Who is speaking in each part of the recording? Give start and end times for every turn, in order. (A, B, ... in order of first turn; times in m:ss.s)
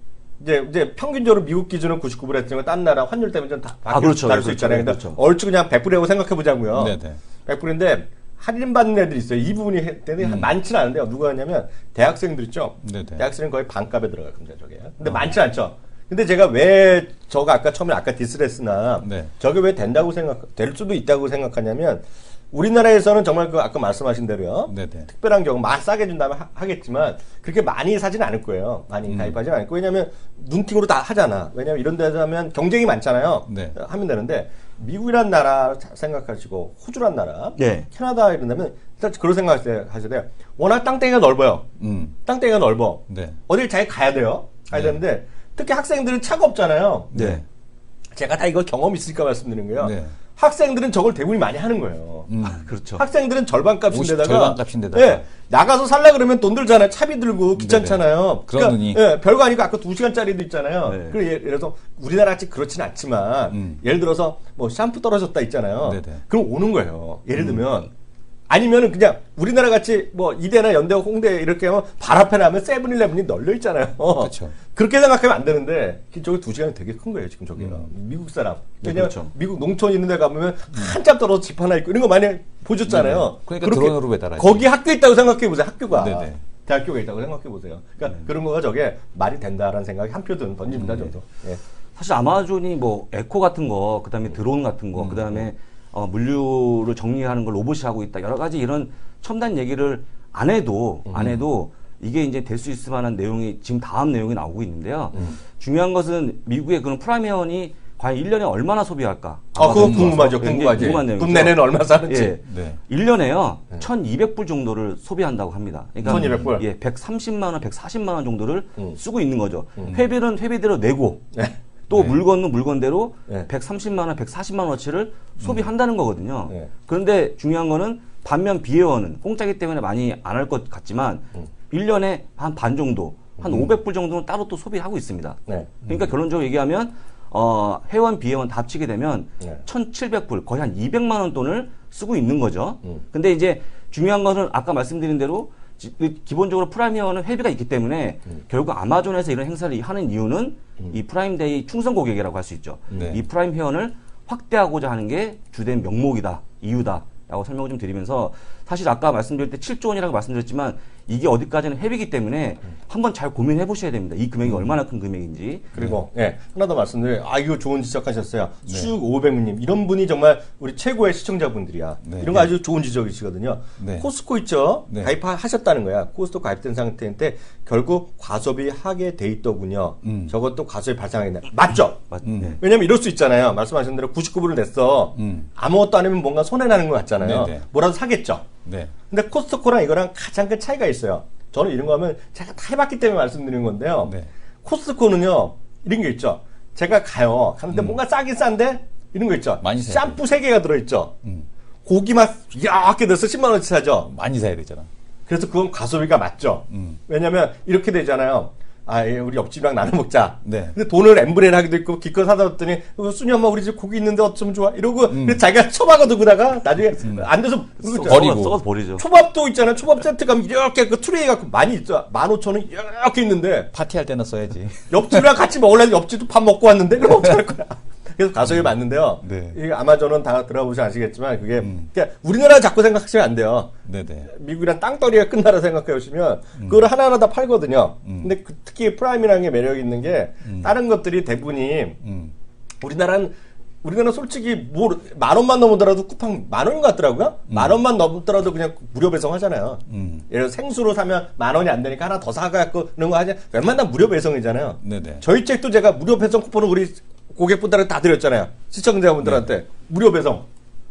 0:00.4-0:41.6 A
0:03.9-0:05.2 B
0:06.7-0:07.2 C
0:10.2-0:10.5 C
0:12.8-0:13.2 C
0:15.0-0:15.3 C
0:19.0-0:19.3 C
0:24.7-0:25.1 C
0:29.1-0:29.4 C
0:33.5-0:33.8 C
0:37.6-0:37.9 B
0:41.8-0:42.2 C
0:42.2-0:47.1 A
0:43.1-0:43.4 C
0:44.7-0:45.0 C
0:47.1-0:47.4 C
0:47.1-0:47.4 B
0:48.1-0:52.3 A
0:49.8-0:50.2 C
0:52.3-0:52.7 C
0:52.4-0:53.0 B
0:53.0-1:07.9 A
0:53.9-0:55.2 C
0:57.6-0:59.0 C
1:00.8-1:01.2 B
1:03.5-1:03.8 C
1:05.8-1:06.2 C
1:07.4-1:07.6 C
1:08.5-1:31.6 A
1:14.2-1:14.6 C
1:17.6-1:17.9 C
1:18.8-1:19.3 B
1:22.9-1:24.7 C
1:25.9-1:26.4 C
1:30.7-1:31.1 C
1:32.0-2:01.3 B
1:35.0-1:35.4 C
1:41.1-1:41.4 A
1:49.6-1:52.3 A
1:49.6-1:51.0 C
1:52.4-1:52.8 C
1:56.0-1:56.5 C
1:56.0-1:56.6 A
2:01.9-2:45.7 B
2:01.9-2:02.2 C
2:05.4-2:05.7 C
2:13.4-2:13.7 A
2:44.4-2:44.8 C
2:45.7-3:02.0 A
2:45.8-2:46.0 C
2:48.7-2:48.9 C
2:52.0-2:52.5 C
2:53.8-2:54.1 C
2:54.9-2:55.1 C
3:00.0-3:00.3 C
3:02.1-3:02.6 B
3:02.2-3:02.6 C
3:02.6-3:08.4 A
3:05.1-3:05.5 C
3:07.2-3:07.7 C
3:08.6-3:08.9 C
3:09.1-3:21.1 A
3:14.0-3:14.3 C
3:17.7-3:18.0 C
3:19.6-3:20.2 C
3:21.8-3:24.1 A
3:24.1-3:24.9 C
3:25.3-3:38.4 A
3:26.7-3:27.0 C
3:30.4-3:30.8 C
3:35.1-3:35.4 C
3:37.0-3:37.3 C
3:37.8-3:39.0 B
3:38.0-3:38.6 C
3:39.0-3:43.7 A
3:43.7-3:45.3 C
3:44.9-3:53.7 A
3:48.5-3:49.6 C
3:51.6-3:51.9 C
3:53.8-3:54.3 C
3:54.3-4:02.0 A
3:56.6-3:56.8 C
3:58.0-3:58.3 C
4:00.4-4:00.7 C
4:02.0-4:02.3 C
4:02.8-4:20.4 A
4:07.5-4:07.8 C
4:09.9-4:10.2 C
4:14.8-4:15.2 C
4:19.2-4:19.5 C